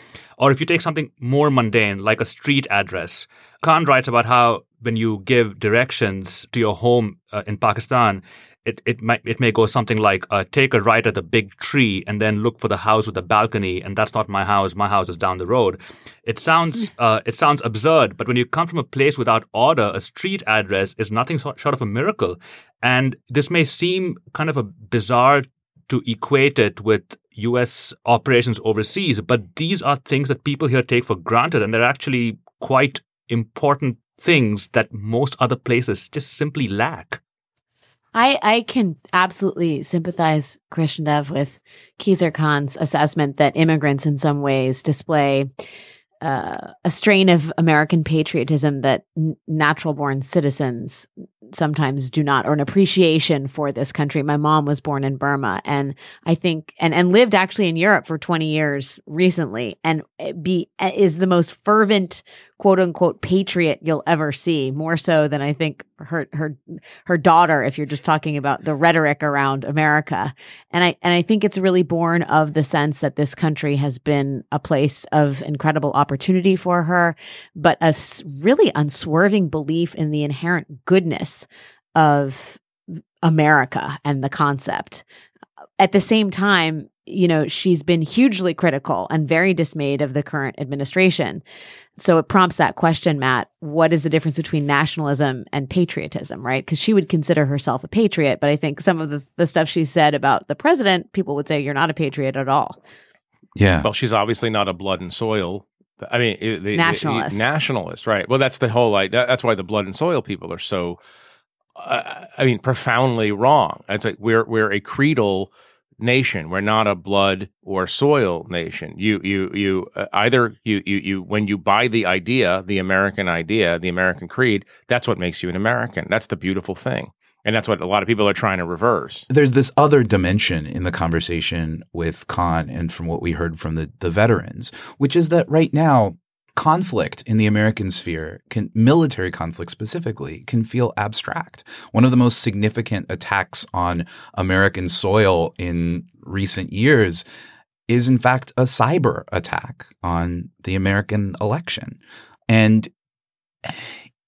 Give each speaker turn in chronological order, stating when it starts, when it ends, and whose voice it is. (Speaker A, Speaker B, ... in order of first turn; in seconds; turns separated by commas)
Speaker A: 0.4-37.2, Speaker B: 38.1-45.5, Speaker B: 46.2-82.6, Speaker B: 83.2-85.0, Speaker B: 85.8-91.4, Speaker B: 92.0-102.8, Speaker C: 103.6-103.9, Speaker D: 103.8-111.0, Speaker B: 106.7-107.5, Speaker D: 111.8-129.3, Speaker C: 129.3-147.2, Speaker C: 147.9-152.9, Speaker C: 153.6-154.0